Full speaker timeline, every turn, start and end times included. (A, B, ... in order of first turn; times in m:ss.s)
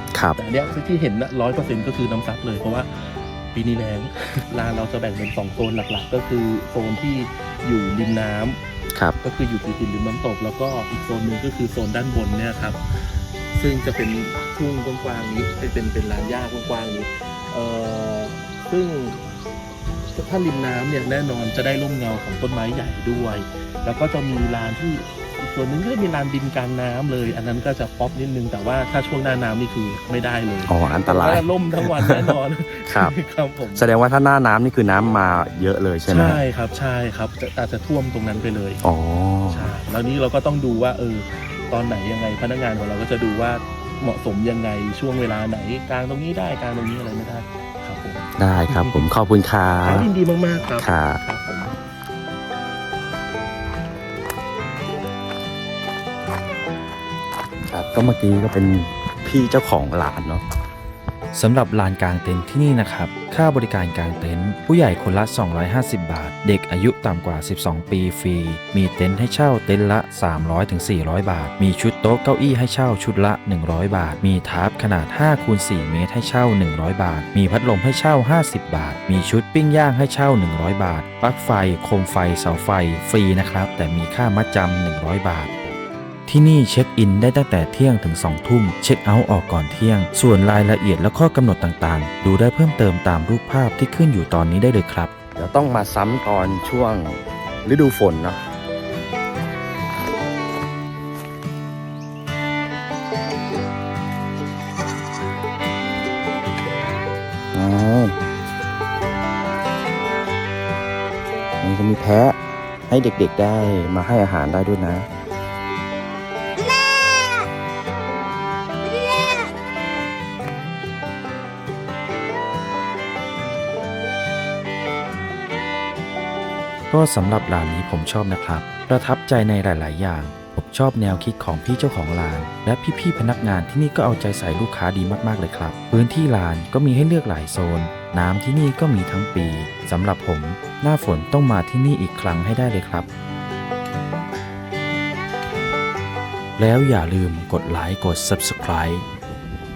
0:00.4-0:08.6 A
0:09.2-0:19.2 A
0:20.1-0:33.9 A
0:30.7-0:32.4 B
0:33.7-0:36.4 B
0:36.1-0:38.8 A
0:38.8-0:39.7 B
0:39.5-0:49.0 A
0:48.4-0:50.1 B
0:49.8-0:51.7 A
0:50.8-0:51.2 B
0:57.7-1:00.4 B
1:01.3-1:25.7 C
1:26.3-1:35.1 C
1:35.3-1:38.4 B
1:47.5-1:48.2 B
1:51.6-1:52.4 B
1:52.9-1:55.1 B
2:06.9-2:23.1 C
2:26.6-2:29.0 C